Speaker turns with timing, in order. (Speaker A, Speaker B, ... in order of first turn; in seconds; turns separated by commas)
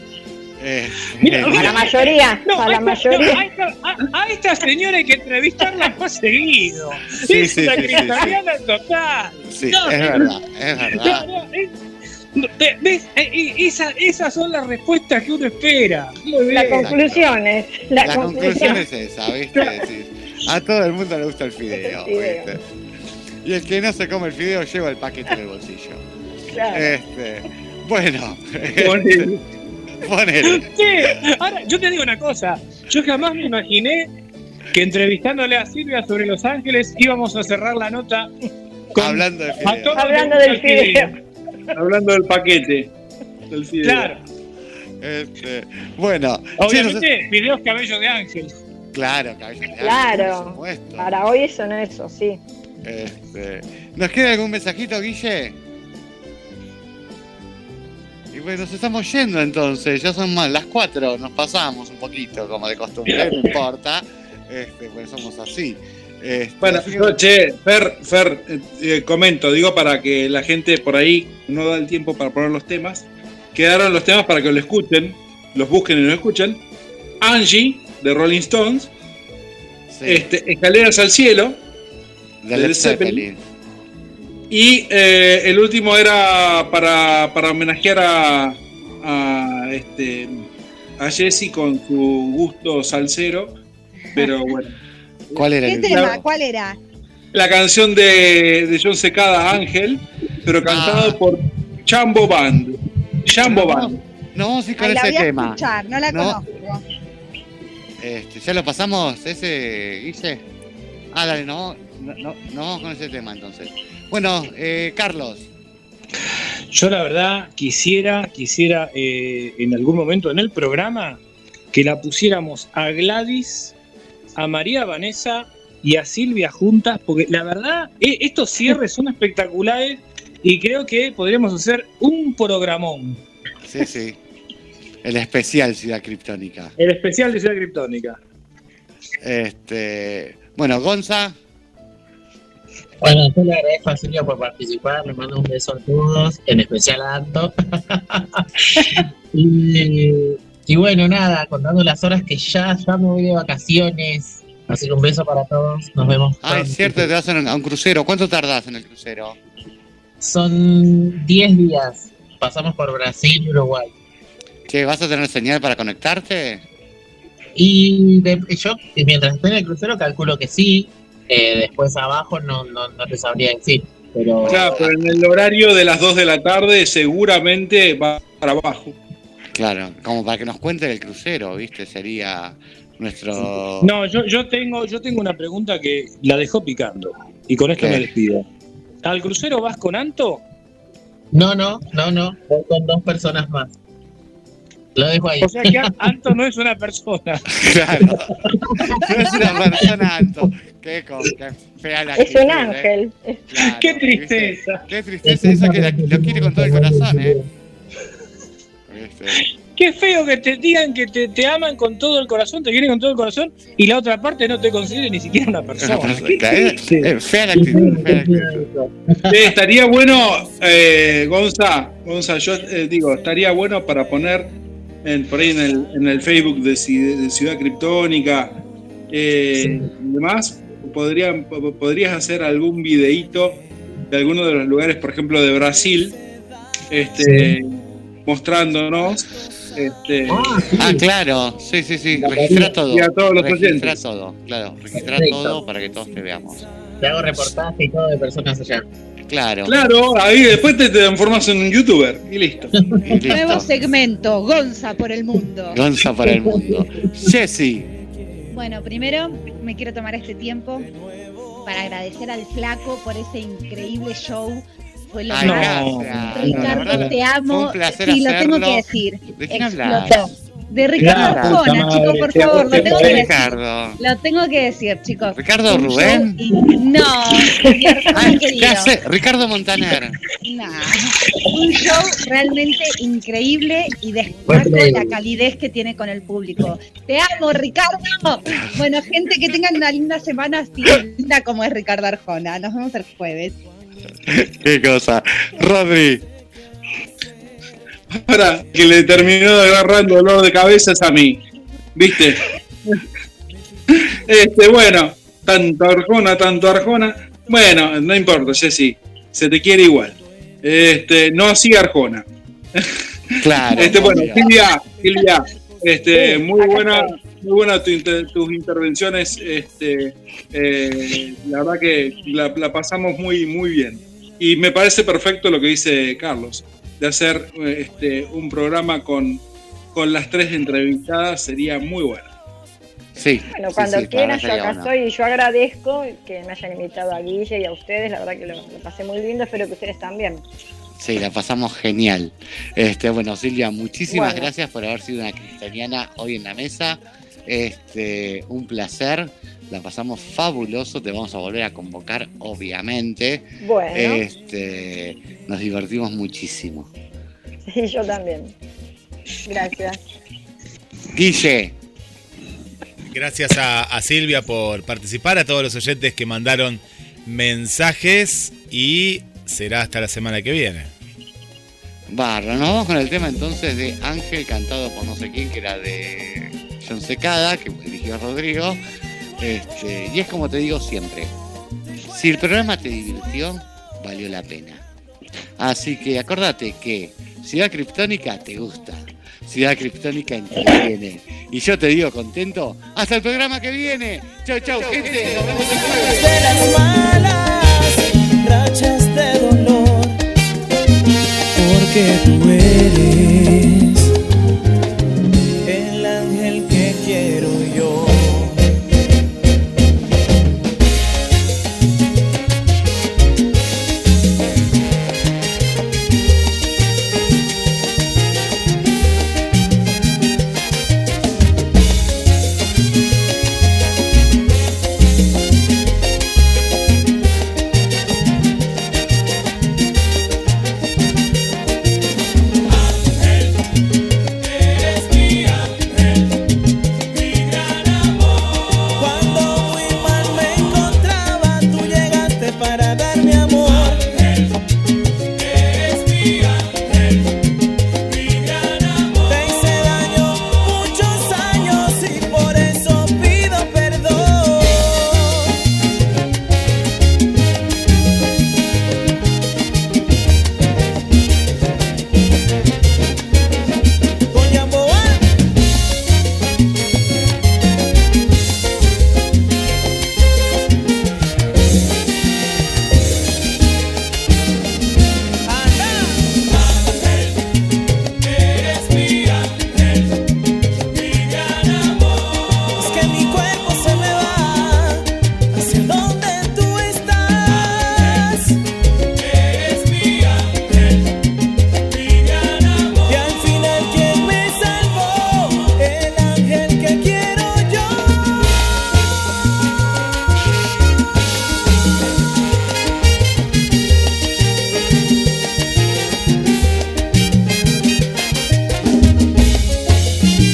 Speaker A: 0.6-2.0, Speaker B: 1.2-10.4, Speaker C: 1.4-3.4, Speaker A: 7.2-8.4, Speaker A: 9.5-11.3, Speaker B: 10.9-11.7, Speaker B: 12.3-16.9, Speaker C: 16.5-18.8, Speaker A: 16.7-17.3, Speaker A: 18.0-22.6, Speaker C: 21.7-22.6, Speaker A: 23.4-26.0, Speaker C: 26.5-26.9, Speaker A: 26.7-29.3, Speaker D: 28.8-29.4, Speaker A: 30.0-31.1, Speaker B: 30.4-34.1, Speaker B: 34.7-38.3, Speaker A: 39.0-40.0, Speaker B: 39.0-41.1, Speaker C: 39.9-41.1, Speaker D: 41.7-42.9, Speaker D: 43.5-44.2, Speaker B: 43.8-44.2, Speaker A: 45.0-47.1, Speaker B: 46.6-48.5, Speaker A: 48.9-51.1, Speaker C: 49.8-52.4, Speaker A: 52.8-55.6, Speaker A: 58.3-67.2, Speaker D: 66.6-76.6, Speaker D: 77.2-78.9, Speaker A: 79.9-80.3, Speaker D: 80.0-81.6, Speaker A: 82.4-83.4, Speaker D: 82.5-83.3, Speaker D: 84.5-90.5, Speaker D: 91.0-93.5, Speaker D: 94.2-94.8, Speaker D: 95.3-96.2, Speaker A: 95.3-96.2, Speaker E: 95.6-96.8, Speaker D: 97.3-104.0, Speaker A: 100.6-101.2, Speaker A: 103.4-106.4, Speaker E: 104.8-106.8, Speaker A: 108.0-110.4, Speaker A: 111.1-115.5, Speaker B: 116.7-121.2, Speaker B: 121.7-123.7, Speaker B: 124.4-133.2, Speaker A: 133.7-134.2, Speaker A: 135.0-136.7, Speaker B: 136.8-138.2, Speaker A: 139.2-141.4, Speaker F: 143.0-157.1, Speaker A: 156.4-159.4, Speaker F: 160.2-163.9, Speaker A: 164.7-166.6, Speaker F: 167.6-174.8, Speaker A: 174.4-174.9, Speaker D: 174.5-179.0, Speaker A: 179.5-183.9, Speaker B: 183.8-188.4, Speaker A: 187.8-188.1, Speaker B: 189.0-190.4, Speaker F: 191.3-193.7, Speaker F: 195.0-195.9, Speaker B: 195.4-197.5, Speaker A: 197.5-198.3, Speaker F: 198.6-198.9, Speaker A: 198.9-202.9, Speaker C: 202.2-203.4, Speaker A: 203.5-207.4, Speaker B: 203.6-204.8, Speaker F: 205.3-207.4, Speaker A: 208.9-209.5, Speaker B: 209.8-216.8, Speaker A: 215.8-218.7, Speaker F: 217.5-219.4, Speaker D: 219.3-224.5, Speaker D: 225.0-236.2, Speaker F: 229.6-229.9, Speaker D: 236.9-240.7, Speaker F: 237.2-237.6, Speaker F: 240.3-241.1, Speaker A: 240.8-246.7, Speaker F: 242.2-242.8, Speaker D: 242.5-244.0, Speaker F: 245.0-245.6, Speaker F: 247.0-248.9, Speaker A: 249.3-249.8, Speaker D: 249.7-252.7, Speaker A: 253.1-253.7, Speaker E: 253.3-255.9, Speaker A: 255.7-257.9, Speaker F: 256.2-256.8, Speaker E: 258.5-260.9, Speaker E: 261.6-278.9, Speaker A: 265.3-270.4, Speaker B: 265.4-267.1, Speaker A: 271.0-271.7, Speaker B: 271.0-273.3, Speaker A: 272.4-274.0, Speaker A: 275.3-276.4, Speaker C: 277.6-278.1, Speaker A: 278.1-280.2, Speaker E: 280.4-293.6, Speaker F: 284.5-285.2, Speaker A: 294.3-296.2, Speaker D: 298.1-301.4, Speaker D: 301.9-303.0, Speaker D: 304.0-332.3, Speaker A: 313.4-314.6, Speaker C: 313.8-314.4, Speaker C: 316.1-317.2, Speaker A: 333.1-334.9, Speaker C: 333.5-340.4, Speaker A: 341.0-356.9, Speaker C: 344.1-344.5, Speaker C: 353.6-354.2, Speaker C: 357.7-358.5, Speaker C: 359.5-360.0, Speaker A: 361.1-361.8, Speaker G: 363.1-370.9, Speaker A: 372.1-378.8, Speaker A: 379.4-381.3, Speaker A: 382.1-384.8, Speaker A: 385.6-396.2, Speaker H: 395.6-400.2, Speaker H: 401.6-403.6, Speaker H: 405.6-408.5, Speaker H: 439.0-444.1, Speaker H: 449.3-455.4, Speaker H: 464.3-465.2, Speaker H: 475.5-476.2, Speaker H: 482.8-485.0, Speaker H: 485.6-488.5, Speaker H: 493.1-498.4